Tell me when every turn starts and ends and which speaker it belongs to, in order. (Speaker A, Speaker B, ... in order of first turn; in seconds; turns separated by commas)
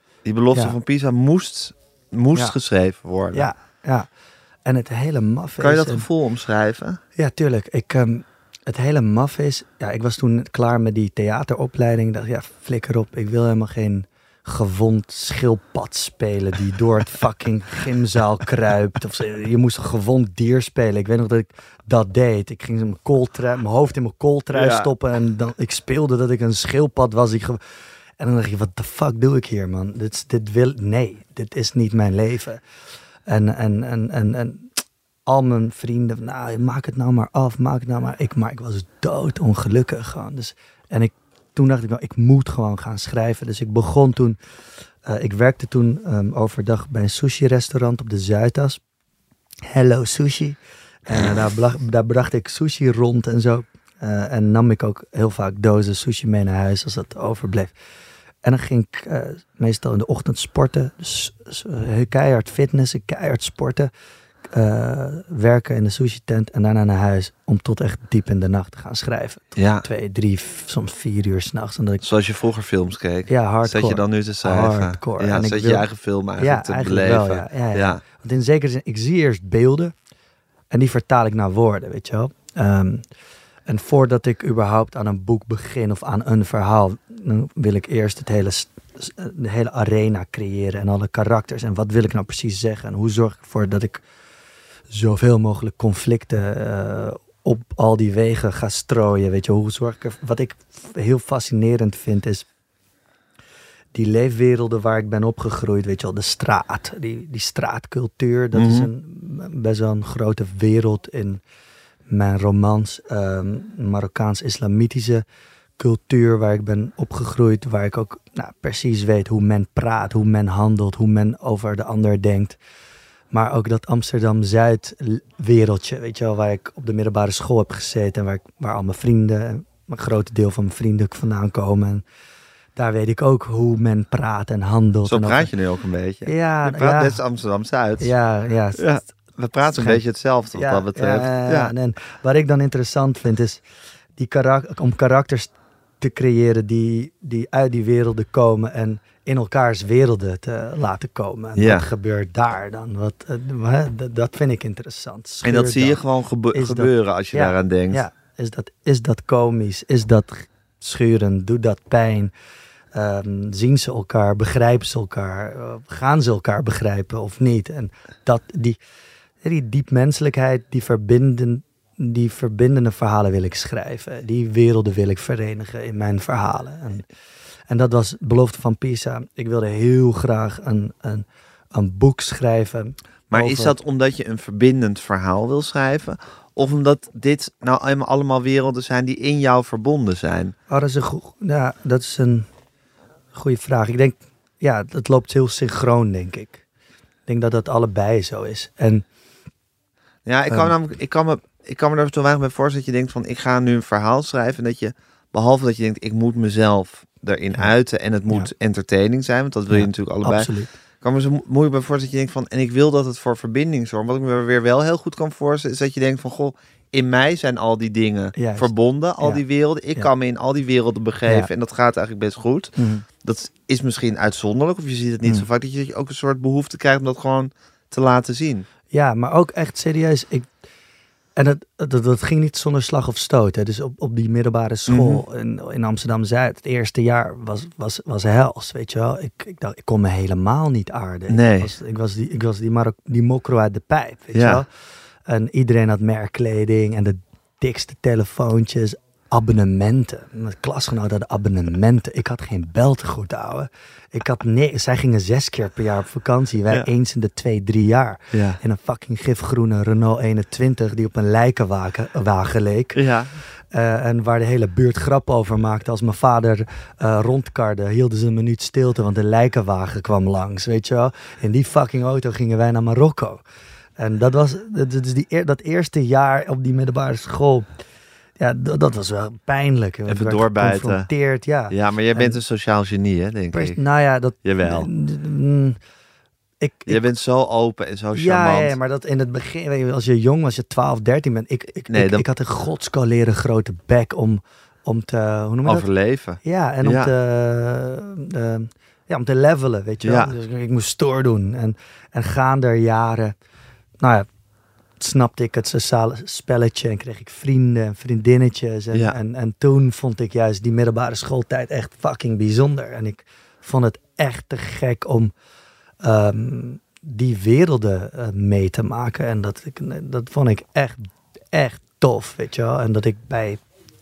Speaker A: 0.2-3.5, Speaker B: 3.3-4.1, Speaker B: 4.7-6.1, Speaker A: 5.6-7.0, Speaker B: 7.2-27.6, Speaker A: 24.5-24.9, Speaker B: 28.2-32.6, Speaker B: 33.3-34.7, Speaker B: 35.3-44.4, Speaker B: 45.0-48.8, Speaker B: 49.7-57.7, Speaker B: 58.4-63.9, Speaker B: 64.5-72.0, Speaker A: 69.6-69.8, Speaker A: 72.0-78.0, Speaker B: 73.3-79.9, Speaker B: 80.7-83.1, Speaker B: 83.7-94.0, Speaker B: 94.9-102.5, Speaker B: 103.9-111.4, Speaker A: 108.5-108.9, Speaker B: 112.1-115.2, Speaker B: 115.8-122.6, Speaker B: 123.3-132.1, Speaker B: 132.8-135.5, Speaker A: 135.1-138.1, Speaker B: 136.3-137.2, Speaker B: 138.0-139.1, Speaker A: 138.8-141.7, Speaker B: 139.7-140.0, Speaker B: 140.5-143.6, Speaker B: 144.2-156.0, Speaker A: 151.6-151.9, Speaker A: 155.4-158.0, Speaker B: 156.5-162.3, Speaker B: 162.9-168.8, Speaker B: 169.4-177.1, Speaker B: 177.7-183.8, Speaker A: 183.3-190.6, Speaker B: 190.7-192.5, Speaker B: 193.3-196.6, Speaker B: 197.3-199.1, Speaker A: 200.2-210.5, Speaker B: 200.5-200.7, Speaker B: 209.7-210.7, Speaker A: 211.0-228.7, Speaker B: 218.4-219.4, Speaker B: 222.8-223.1, Speaker B: 228.9-230.5, Speaker B: 231.4-244.7, Speaker A: 234.9-235.2, Speaker A: 241.3-241.7, Speaker A: 244.3-244.6, Speaker B: 245.2-273.4, Speaker A: 258.3-258.6, Speaker A: 262.9-263.4, Speaker B: 274.0-277.7, Speaker B: 278.4-282.4, Speaker A: 280.1-281.1, Speaker A: 281.7-283.8, Speaker B: 283.5-285.8, Speaker A: 284.4-284.9, Speaker B: 286.6-287.0, Speaker A: 286.9-288.8, Speaker B: 288.1-295.9, Speaker A: 291.9-292.2, Speaker A: 295.6-297.1, Speaker B: 296.4-303.4, Speaker A: 300.0-300.4, Speaker B: 304.0-304.3, Speaker B: 305.0-315.3, Speaker B: 316.0-323.6